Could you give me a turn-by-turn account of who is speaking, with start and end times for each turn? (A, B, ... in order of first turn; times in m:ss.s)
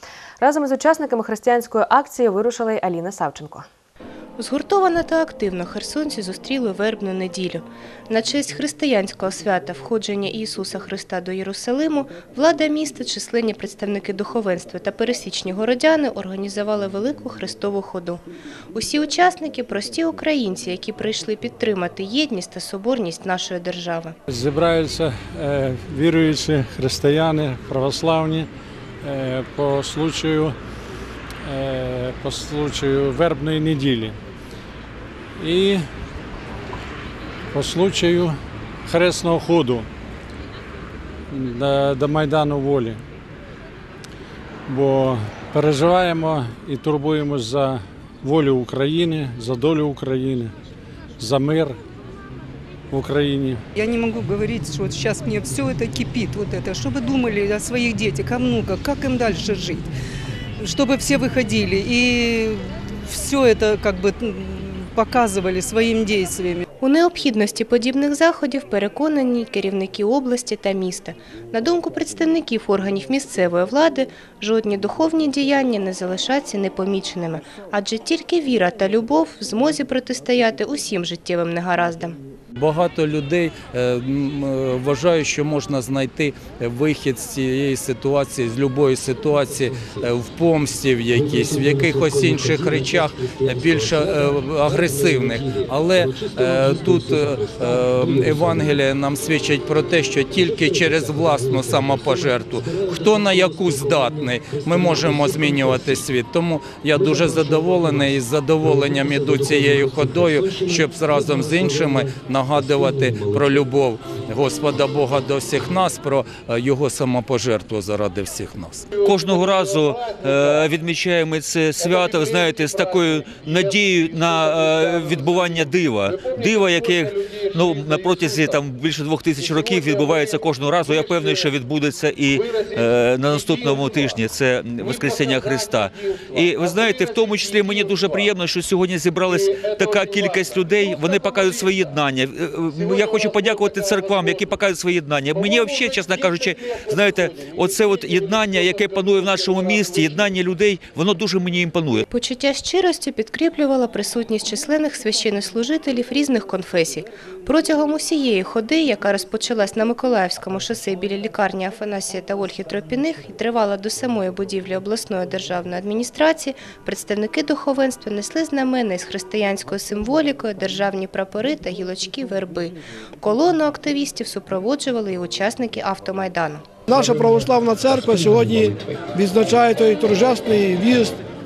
0:00.4-0:03.6 A
0:04.4-0:18.2 B
0:18.7-0:24.1 B
0:24.3-0:28.5 C
0:29.0-0:30.5 C
0:31.4-0:34.2 C
0:35.4-0:35.8 C
0:37.5-0:39.9 C
0:41.3-0:43.0 C
0:44.7-0:50.5 C
0:51.2-0:51.8 C
0:52.9-0:53.6 C
0:53.7-0:59.9 D
1:00.6-1:06.6 D
1:06.8-1:22.2 B
1:22.5-1:58.9 E
1:59.0-2:32.0 F
2:32.1-2:56.6 B
2:56.9-3:01.2 G